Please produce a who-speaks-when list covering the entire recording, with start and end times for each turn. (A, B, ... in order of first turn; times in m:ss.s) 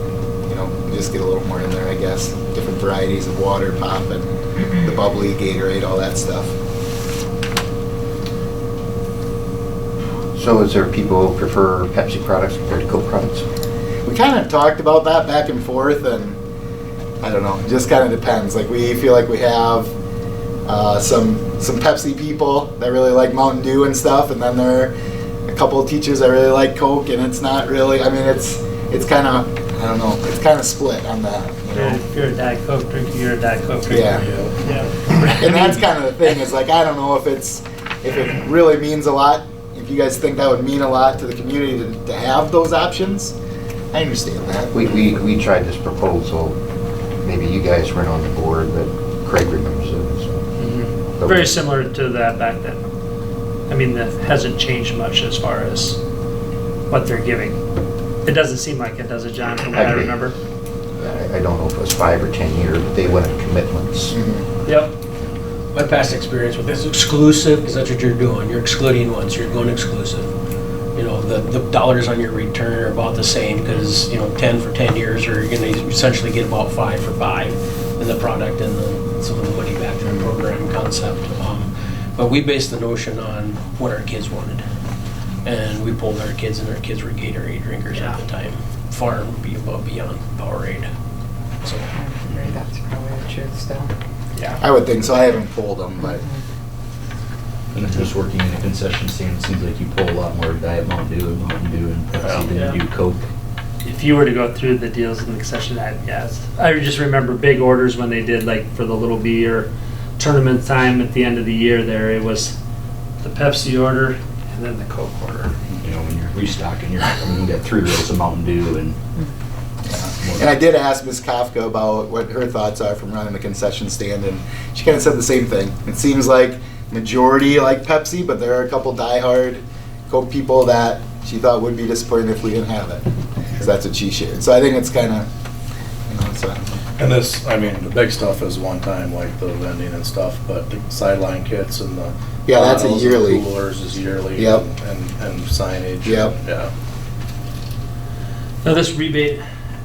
0:00.4-0:06.6 A
0:10.3-0:13.4 B
0:14.0-0:16.4 A
0:17.2-0:19.9 A
0:20.6-0:24.9 A
0:25.5-0:32.0 A
0:31.7-0:35.8 C
0:33.9-0:34.2 A
0:34.2-0:34.5 D
0:35.3-0:43.4 A
0:43.9-0:44.7 A
0:44.7-0:46.6 B
0:47.2-0:50.4 B
0:50.6-0:52.8 C
0:51.2-0:51.6 B
0:53.7-0:56.0 C
0:56.9-0:57.6 C
0:58.2-1:00.4 C
0:59.7-1:00.2 B
1:01.0-1:04.2 B
1:04.1-1:04.4 A
1:04.6-1:04.9 C
1:05.7-1:10.3 E
1:10.9-1:24.6 E
1:25.4-1:30.9 E
1:27.9-1:28.2 C
1:31.6-1:31.9 E
1:31.9-1:33.9 F
1:34.6-1:36.2 A
1:36.0-1:36.4 F
1:37.7-1:43.2 G
1:42.5-1:42.8 C
1:43.8-1:52.6 C
1:53.2-1:55.5 C
1:55.7-1:59.0 G
1:59.8-2:13.0 A
2:00.2-2:00.5 G
2:13.6-2:15.3 A
2:16.1-2:16.8 A
2:17.0-2:22.1 D
2:22.5-2:23.4 A
2:22.5-2:23.3 E
2:22.9-2:26.7 D
2:24.3-2:24.6 A
2:26.0-2:26.3 A
2:28.6-2:29.4 C